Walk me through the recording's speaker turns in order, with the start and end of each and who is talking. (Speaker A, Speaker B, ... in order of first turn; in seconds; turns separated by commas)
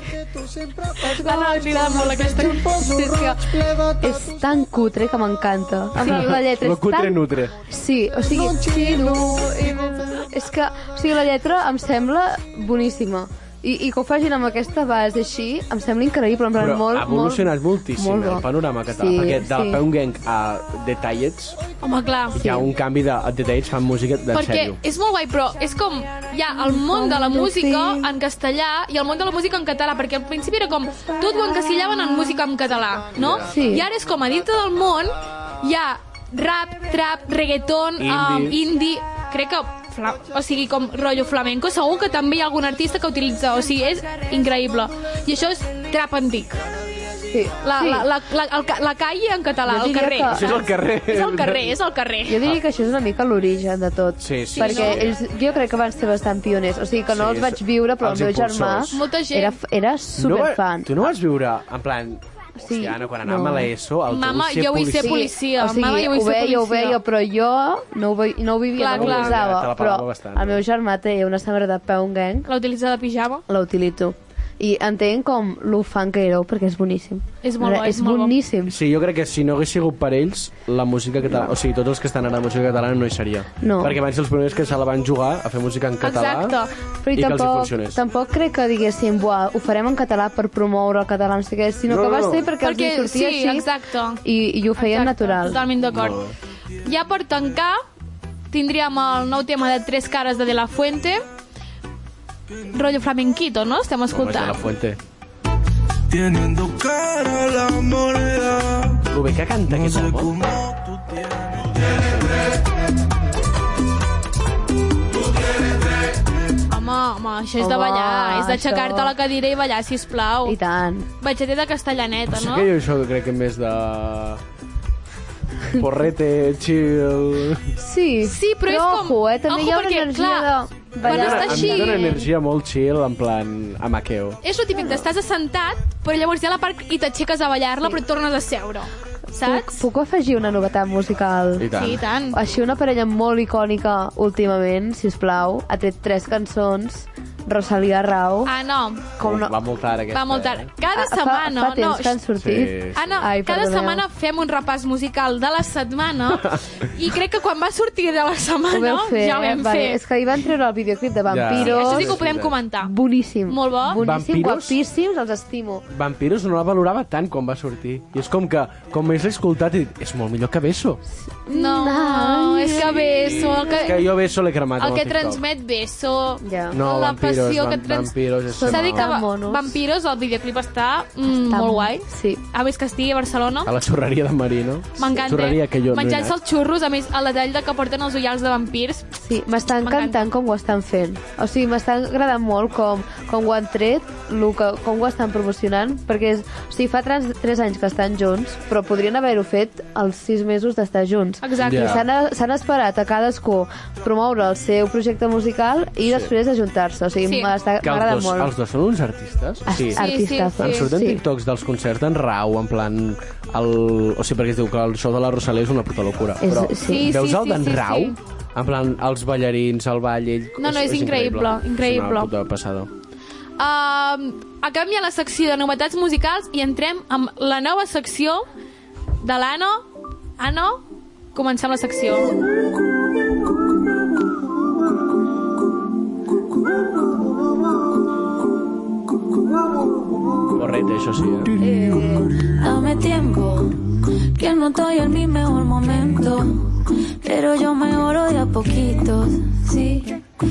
Speaker A: 1.0-2.8, Speaker B: 1.1-19.8, Speaker C: 6.0-7.5, Speaker C: 16.6-21.6, Speaker A: 21.8-22.4, Speaker C: 22.4-24.8, Speaker B: 22.4-22.7, Speaker A: 24.3-46.6, Speaker B: 26.6-28.1, Speaker C: 33.1-33.5, Speaker B: 33.5-33.9, Speaker C: 38.0-38.6, Speaker B: 47.3-48.1, Speaker A: 47.6-52.5, Speaker B: 49.7-50.6, Speaker C: 50.3-51.7, Speaker B: 52.3-60.9, Speaker C: 54.2-55.2, Speaker A: 54.5-55.1, Speaker C: 57.1-59.0, Speaker A: 58.9-59.6, Speaker C: 60.2-65.3, Speaker B: 62.6-63.7, Speaker A: 64.1-67.0, Speaker B: 65.0-72.5, Speaker A: 68.8-69.4, Speaker C: 68.9-70.6, Speaker A: 72.5-73.4, Speaker B: 73.5-78.8, Speaker A: 77.4-78.3, Speaker C: 78.7-86.6, Speaker B: 83.6-84.0, Speaker A: 86.0-86.7, Speaker B: 87.0-93.7, Speaker C: 87.1-88.0, Speaker C: 91.9-92.5, Speaker A: 92.6-94.2, Speaker B: 94.2-95.6, Speaker A: 94.8-96.2, Speaker C: 95.9-96.3, Speaker A: 96.8-97.8, Speaker A: 98.5-101.2, Speaker A: 102.7-104.6, Speaker C: 104.1-105.0, Speaker D: 106.1-109.0, Speaker C: 109.0-110.3, Speaker D: 109.8-111.8, Speaker C: 112.0-112.3, Speaker A: 116.7-120.6, Speaker B: 117.6-119.2, Speaker B: 120.5-121.1, Speaker A: 121.2-122.7, Speaker C: 122.3-124.4, Speaker C: 125.7-127.8, Speaker B: 127.8-132.3, Speaker A: 128.2-130.5, Speaker C: 131.0-134.4, Speaker A: 131.0-132.2, Speaker A: 134.4-139.8, Speaker B: 139.4-141.7, Speaker C: 141.6-142.0, Speaker A: 141.7-142.4, Speaker B: 142.3-148.5, Speaker A: 148.5-149.1, Speaker B: 149.2-149.6, Speaker C: 149.2-150.7, Speaker A: 150.1-152.2, Speaker B: 150.9-154.0, Speaker C: 152.4-153.2, Speaker A: 152.9-160.0, Speaker B: 158.7-162.2, Speaker C: 161.3-162.6, Speaker A: 161.6-162.9, Speaker B: 162.8-165.9, Speaker A: 163.5-164.0, Speaker C: 163.9-164.8, Speaker C: 165.9-171.0, Speaker B: 171.3-173.9, Speaker A: 171.5-174.1, Speaker C: 173.1-175.4, Speaker A: 174.8-183.7, Speaker B: 176.4-176.8, Speaker C: 176.7-179.1, Speaker B: 178.5-179.8, Speaker B: 181.3-182.4, Speaker C: 183.7-186.4, Speaker A: 185.0-189.1, Speaker B: 189.2-208.5, Speaker A: 189.8-190.2, Speaker A: 201.4-202.0, Speaker C: 201.6-202.1, Speaker C: 206.1-206.3, Speaker A: 207.2-207.5, Speaker C: 207.8-222.9, Speaker B: 209.7-211.2, Speaker A: 209.9-210.9, Speaker B: 216.4-217.1, Speaker A: 216.8-218.2, Speaker A: 220.6-222.3, Speaker A: 223.6-228.5, Speaker A: 229.2-229.9, Speaker A: 230.4-232.3, Speaker C: 240.5-241.6, Speaker B: 241.6-242.4, Speaker E: 242.6-243.7, Speaker E: 244.4-246.4, Speaker E: 247.2-250.1